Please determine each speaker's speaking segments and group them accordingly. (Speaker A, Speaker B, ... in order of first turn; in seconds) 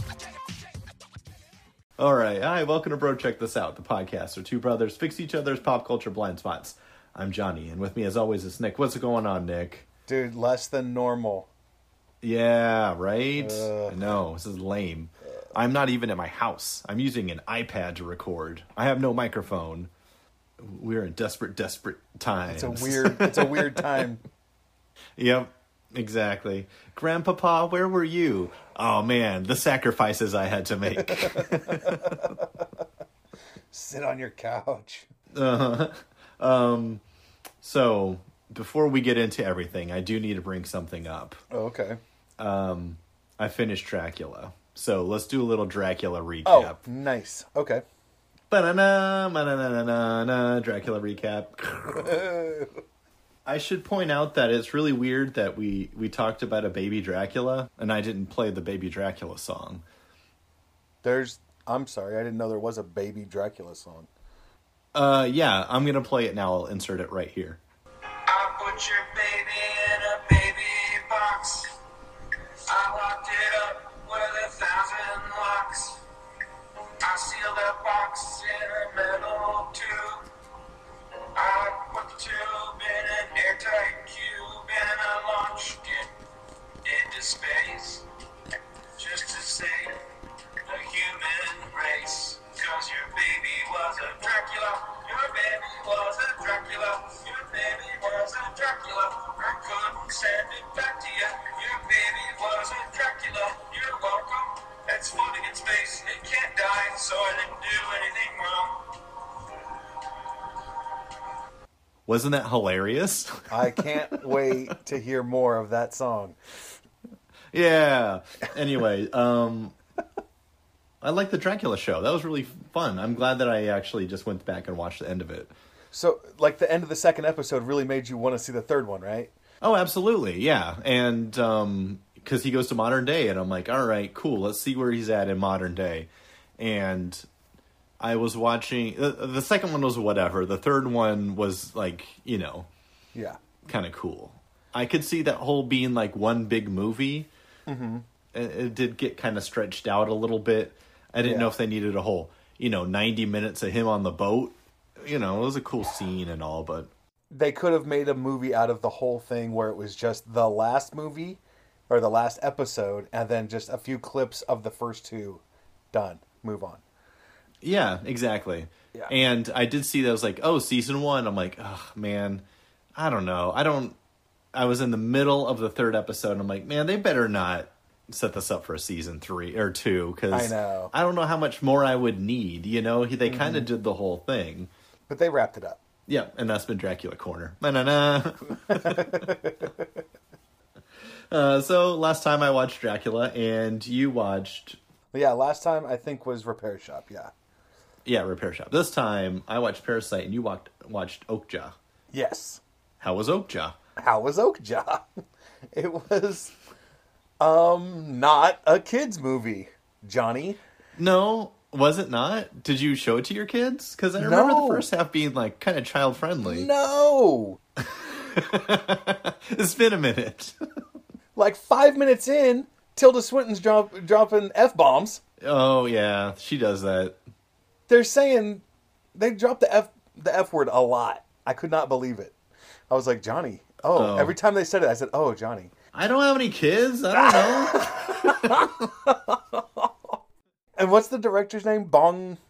Speaker A: 2.0-9.8, 12.2-19.9, 20.6-24.1, 25.2-32.3, 35.3-37.0, 37.6-41.4, 42.4-46.8, 48.5-52.2, 53.4-59.8, 64.9-67.6, 112.1-114.5, 117.5-119.7, 121.0-125.5, 129.6-137.2, 138.0-142.7, 143.6-147.3, 148.3-156.9, 167.6-174.0, 174.5-184.7, 186.1-189.3, 191.3-194.8, 198.0-201.8, 203.0-203.8, 210.9-216.7, 217.8-220.6, 225.4-227.2, 233.9-234.3, 235.9-238.8
Speaker B: 10.1-11.5, 13.4-14.1, 22.5-24.2, 31.2-32.6, 33.7-35.1, 41.5-42.0, 46.4-47.8, 52.0-52.8, 61.0-64.1, 113.5-116.4, 125.9-129.3, 147.7-148.0, 151.2-151.6, 157.3-166.8, 180.3-180.9, 183.2-183.7, 185.1-185.8, 188.7-189.9, 195.1-197.3, 202.1-202.6, 204.0-205.0, 205.7-206.5, 207.4-210.6, 214.2-214.9, 216.4-217.6, 221.3-225.2, 227.9-228.6, 229.1-232.3, 232.9-235.7, 237.1-239.9, 240.8-242.4
Speaker C: 68.3-71.7, 72.7-76.0, 77.0-80.2, 81.3-86.1, 86.8-88.0, 89.0-90.0, 90.6-109.2